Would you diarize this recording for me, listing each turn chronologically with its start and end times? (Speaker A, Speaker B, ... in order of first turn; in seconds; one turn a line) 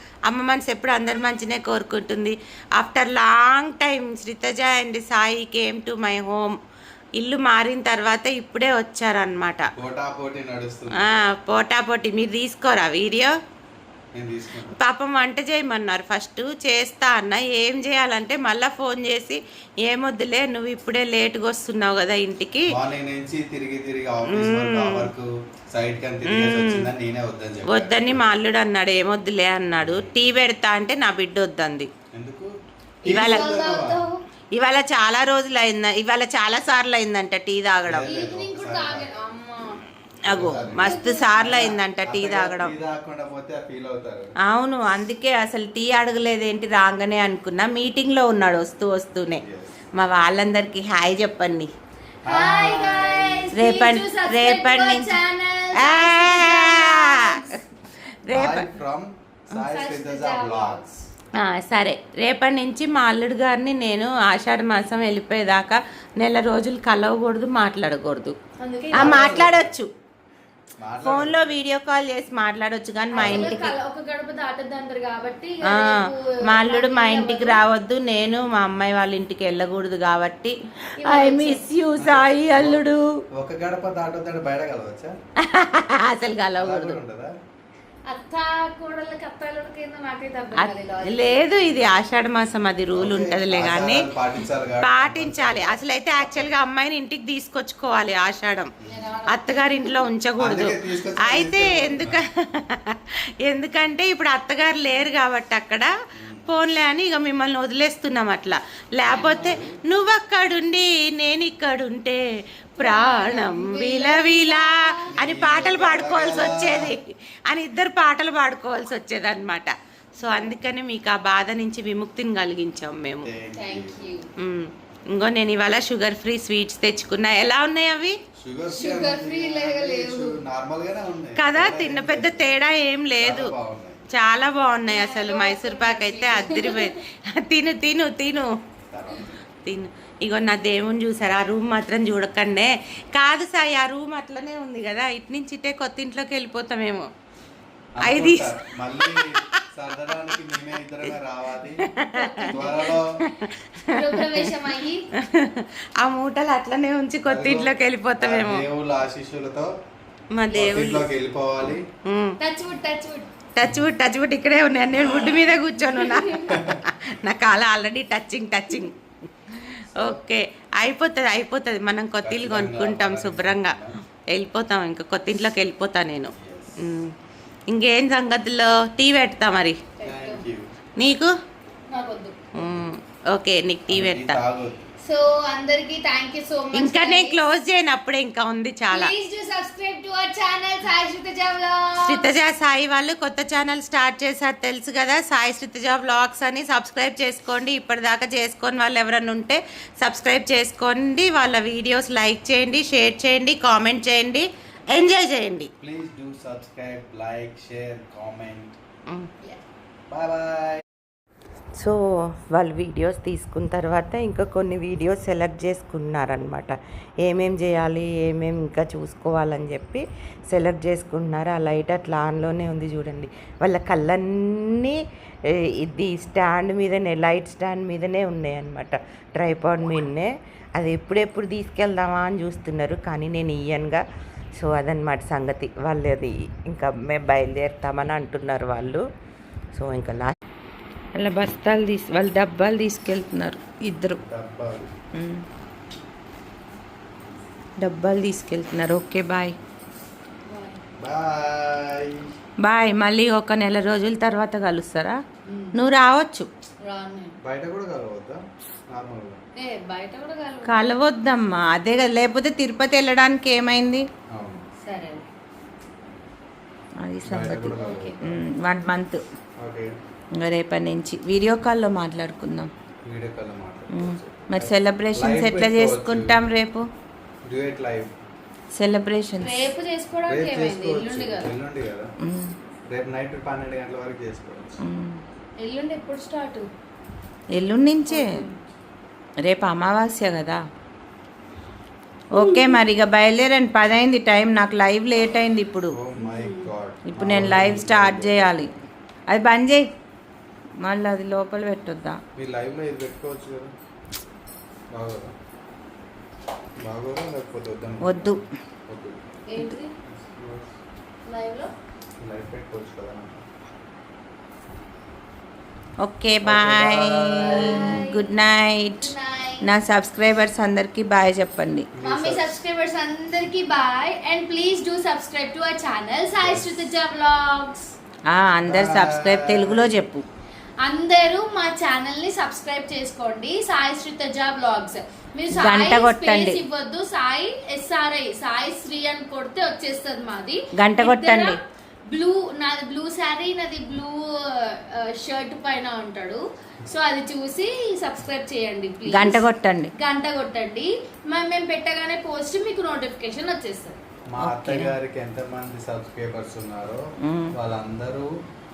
Speaker A: 0.3-6.5
Speaker A: 7.2-9.7
Speaker B: 9.7-11.3
Speaker A: 11.0-13.3
Speaker B: 14.1-14.8
Speaker A: 14.8-22.7
Speaker B: 22.7-28.3
Speaker A: 24.3-25.1
Speaker A: 26.3-26.9
Speaker A: 27.7-31.9
Speaker B: 29.8-30.2
Speaker B: 32.1-32.5
Speaker B: 33.0-34.0
Speaker C: 33.0-34.1
Speaker A: 33.0-33.5
Speaker A: 34.5-38.2
Speaker B: 37.8-39.2
Speaker C: 38.0-39.8
Speaker B: 40.3-44.3
Speaker A: 40.3-42.7
Speaker C: 40.5-41.3
Speaker A: 44.5-49.4
Speaker B: 49.4-49.8
Speaker A: 49.9-51.7
Speaker B: 52.2-53.5
Speaker C: 52.2-57.6
Speaker A: 53.5-55.1
Speaker A: 55.8-57.6
Speaker A: 58.2-58.6
Speaker B: 58.3-60.8
Speaker C: 59.6-61.0
Speaker A: 61.3-68.3
Speaker C: 68.6-69.2
Speaker B: 68.9-69.7
Speaker A: 68.9-69.9
Speaker B: 70.8-71.5
Speaker A: 71.0-73.7
Speaker B: 73.1-73.5
Speaker C: 73.1-77.6
Speaker A: 75.7-83.0
Speaker C: 81.0-81.7
Speaker B: 82.0-82.8
Speaker B: 83.3-85.1
Speaker A: 85.4-87.0
Speaker B: 86.5-87.3
Speaker C: 88.1-91.7
Speaker A: 90.6-94.1
Speaker B: 92.9-96.5
Speaker A: 94.8-98.7
Speaker C: 98.8-100.0
Speaker A: 99.3-105.9
Speaker B: 100.4-102.2
Speaker B: 106.1-106.5
Speaker A: 106.5-112.2
Speaker B: 109.0-109.8
Speaker C: 109.1-109.5
Speaker A: 112.8-123.3
Speaker C: 112.8-115.1
Speaker B: 115.2-116.9
Speaker C: 120.2-120.5
Speaker B: 123.2-124.1
Speaker C: 123.5-124.3
Speaker A: 124.4-128.2
Speaker B: 128.4-132.5
Speaker C: 128.7-130.4
Speaker A: 131.4-133.5
Speaker B: 133.2-134.0
Speaker A: 134.1-138.5
Speaker C: 134.8-136.9
Speaker B: 138.9-139.4
Speaker A: 139.6-147.1
Speaker B: 147.9-151.9
Speaker A: 148.0-149.2
Speaker A: 151.9-154.5
Speaker C: 152.0-152.9
Speaker B: 152.4-153.1
Speaker C: 153.9-155.0
Speaker A: 155.2-158.6
Speaker B: 157.2-159.7
Speaker A: 160.3-161.1
Speaker B: 160.5-161.8
Speaker A: 162.1-162.3
Speaker C: 162.4-163.3
Speaker A: 163.5-168.9
Speaker C: 165.8-166.6
Speaker B: 166.5-166.8
Speaker A: 169.5-173.8
Speaker B: 169.9-170.2
Speaker B: 172.2-173.9
Speaker A: 174.3-177.1
Speaker B: 176.3-176.8
Speaker A: 177.7-179.8
Speaker C: 180.0-180.4
Speaker B: 180.0-180.7
Speaker A: 181.0-181.3
Speaker C: 181.9-182.4
Speaker B: 182.5-182.9
Speaker A: 182.5-184.4
Speaker B: 183.9-184.8
Speaker C: 185.0-187.4
Speaker A: 186.7-189.1
Speaker C: 188.9-192.3
Speaker A: 192.0-205.7
Speaker B: 205.8-208.8
Speaker B: 210.1-210.8
Speaker A: 211.8-225.0
Speaker A: 225.6-234.0
Speaker A: 234.6-239.0
Speaker A: 239.7-240.3
Speaker A: 241.1-244.2
Speaker B: 244.2-244.9
Speaker A: 245.1-245.4
Speaker A: 247.8-249.6
Speaker C: 250.4-250.8
Speaker B: 251.0-252.2
Speaker A: 252.6-255.2
Speaker C: 255.4-255.8
Speaker A: 255.7-256.5
Speaker C: 256.8-257.4
Speaker B: 257.4-258.4
Speaker B: 258.9-259.4
Speaker C: 259.6-260.9
Speaker A: 260.6-264.1
Speaker B: 264.3-264.6
Speaker C: 264.8-265.2
Speaker A: 267.0-269.2
Speaker B: 267.2-268.4
Speaker C: 267.7-268.2
Speaker B: 269.6-269.9
Speaker A: 270.4-272.7
Speaker B: 273.0-276.5
Speaker A: 273.9-276.9
Speaker B: 277.5-278.1
Speaker A: 278.7-279.6
Speaker C: 279.4-281.5
Speaker B: 280.3-282.1
Speaker A: 282.2-282.5
Speaker B: 282.9-284.8
Speaker A: 284.8-285.2
Speaker C: 285.6-286.7
Speaker A: 287.5-288.3
Speaker C: 288.1-288.6
Speaker A: 289.4-290.6
Speaker A: 292.3-295.9
Speaker C: 292.3-292.8
Speaker B: 295.9-298.7
Speaker C: 296.2-296.7
Speaker A: 297.1-298.7
Speaker A: 299.3-299.8
Speaker A: 300.8-302.2
Speaker B: 302.3-303.7
Speaker B: 304.9-305.3
Speaker B: 306.8-309.2
Speaker A: 308.0-308.4
Speaker C: 309.5-309.9
Speaker B: 310.0-310.8
Speaker C: 311.2-311.7
Speaker B: 312.2-313.4
Speaker A: 316.0-319.1
Speaker B: 316.4-318.0
Speaker C: 317.4-318.3
Speaker C: 319.0-319.7
Speaker A: 319.6-321.9
Speaker B: 321.9-322.5
Speaker C: 322.0-327.9
Speaker B: 326.4-326.8
Speaker A: 328.3-330.2
Speaker B: 328.6-330.0
Speaker C: 330.8-341.6
Speaker A: 335.5-336.6
Speaker A: 340.8-341.6
Speaker C: 342.1-354.0
Speaker A: 349.1-349.9
Speaker B: 354.3-357.0
Speaker A: 354.4-354.9
Speaker A: 357.2-357.5
Speaker B: 357.5-358.3